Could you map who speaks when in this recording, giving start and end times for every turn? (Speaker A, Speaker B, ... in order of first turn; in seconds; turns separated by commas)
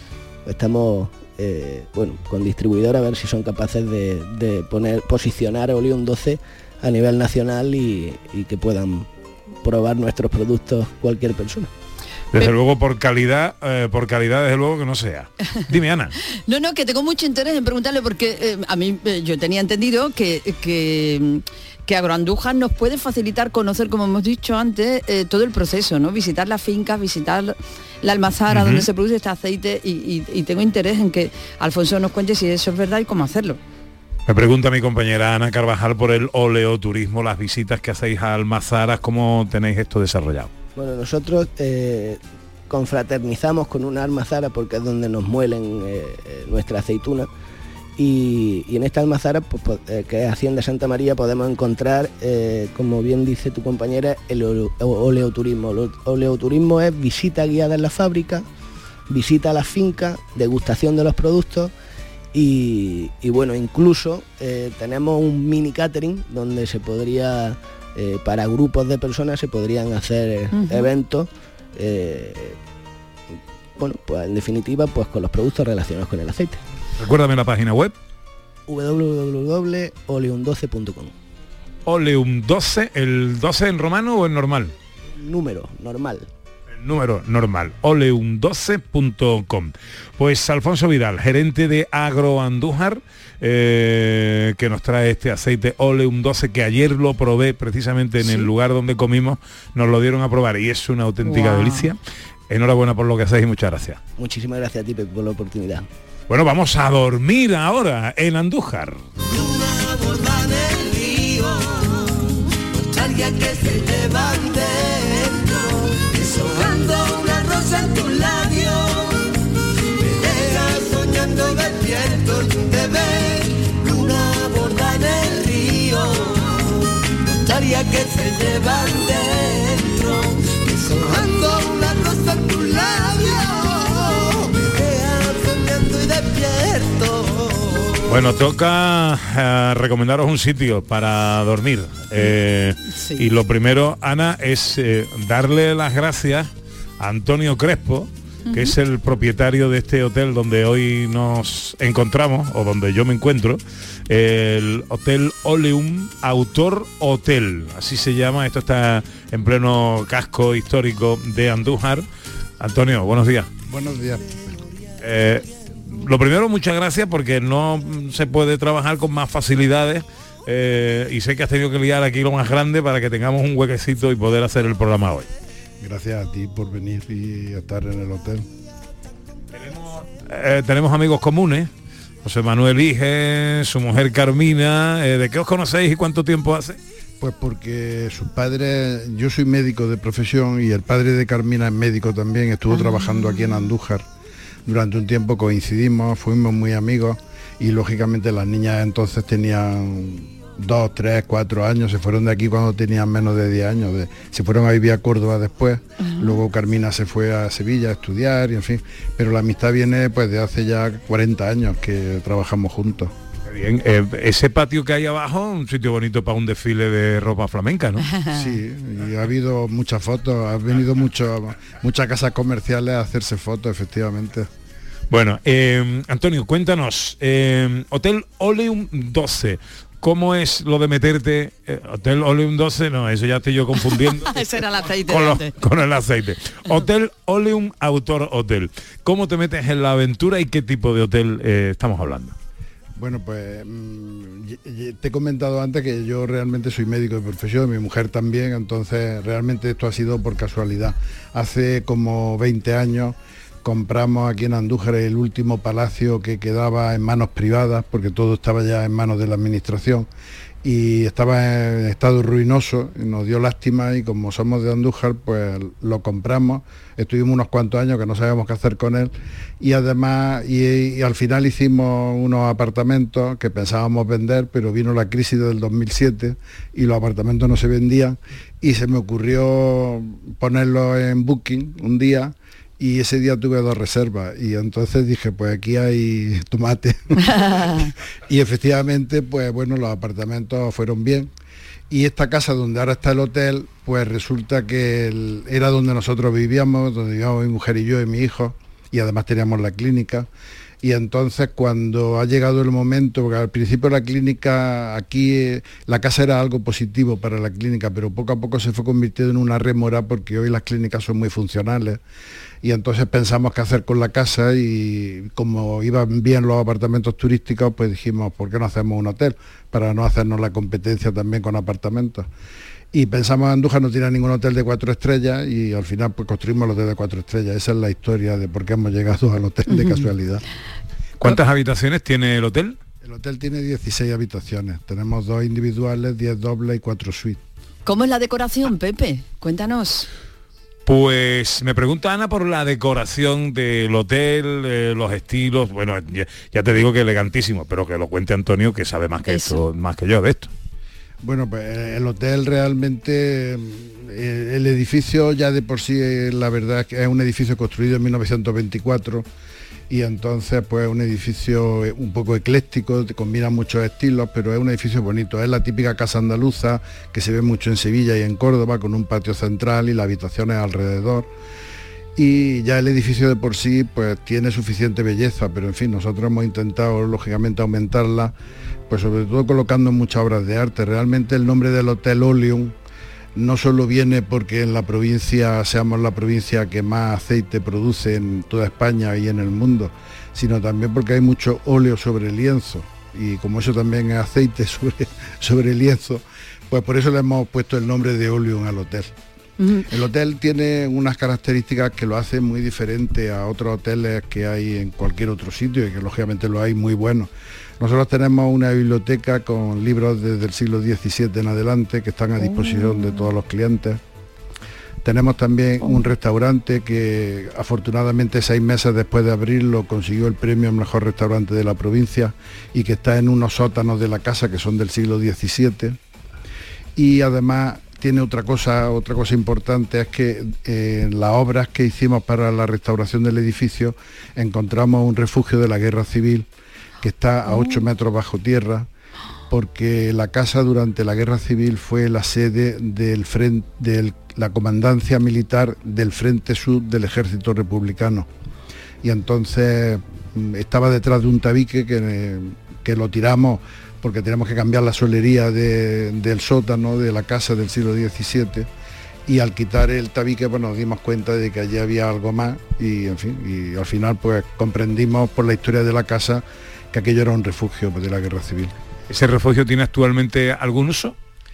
Speaker A: 0.5-9.1, Speaker A: 9.6-11.7, Speaker B: 12.3-16.1, Speaker C: 16.4-33.6, Speaker B: 28.5-28.9, Speaker B: 34.3-40.5, Speaker A: 40.8-47.3, Speaker A: 48.0-58.4, Speaker A: 59.1-61.7, Speaker A: 62.3-72.5, Speaker C: 70.5-70.9, Speaker A: 73.8-76.6, Speaker B: 77.0-77.9, Speaker A: 78.7-81.1, Speaker B: 81.8-84.7, Speaker A: 85.2-86.2, Speaker B: 86.8-102.0, Speaker C: 98.2-98.5, Speaker C: 101.2-101.9, Speaker B: 102.5-104.0, Speaker A: 104.2-105.8, Speaker B: 106.3-109.0, Speaker D: 109.3-119.3, Speaker D: 120.0-126.8, Speaker D: 127.4-138.0, Speaker B: 138.1-162.0, Speaker C: 142.9-143.2, Speaker C: 148.5-148.7, Speaker B: 162.6-163.5, Speaker E: 163.6-164.7, Speaker B: 165.0-175.3, Speaker E: 175.8-178.4, Speaker B: 179.6-181.7, Speaker B: 182.2-186.8, Speaker E: 187.2-194.0, Speaker C: 192.9-193.4, Speaker E: 194.7-213.1, Speaker C: 206.0-206.3, Speaker B: 213.5-218.2, Speaker E: 218.3-224.5, Speaker B: 225.1-242.3, Speaker C: 233.9-235.5, Speaker E: 243.0-260.1, Speaker E: 260.6-291.3, Speaker C: 287.4-287.8, Speaker E: 291.9-300.3, Speaker E: 300.8-312.0, Speaker E: 312.6-322.3, Speaker E: 322.9-330.4, Speaker B: 331.2-332.8, Speaker E: 333.0-337.4, Speaker C: 337.9-340.1, Speaker B: 340.9-350.5, Speaker C: 349.3-349.6, Speaker E: 351.2-359.2, Speaker E: 359.9-371.3, Speaker E: 372.2-378.3, Speaker E: 378.9-382.7, Speaker E: 383.4-399.1, Speaker C: 399.6-399.9, Speaker E: 399.9-414.0, Speaker E: 415.0-426.0, Speaker E: 426.9-436.4, Speaker E: 437.0-438.9, Speaker E: 439.5-448.3, Speaker E: 449.0-458.7, Speaker E: 459.3-468.7, Speaker B: 469.1-471.1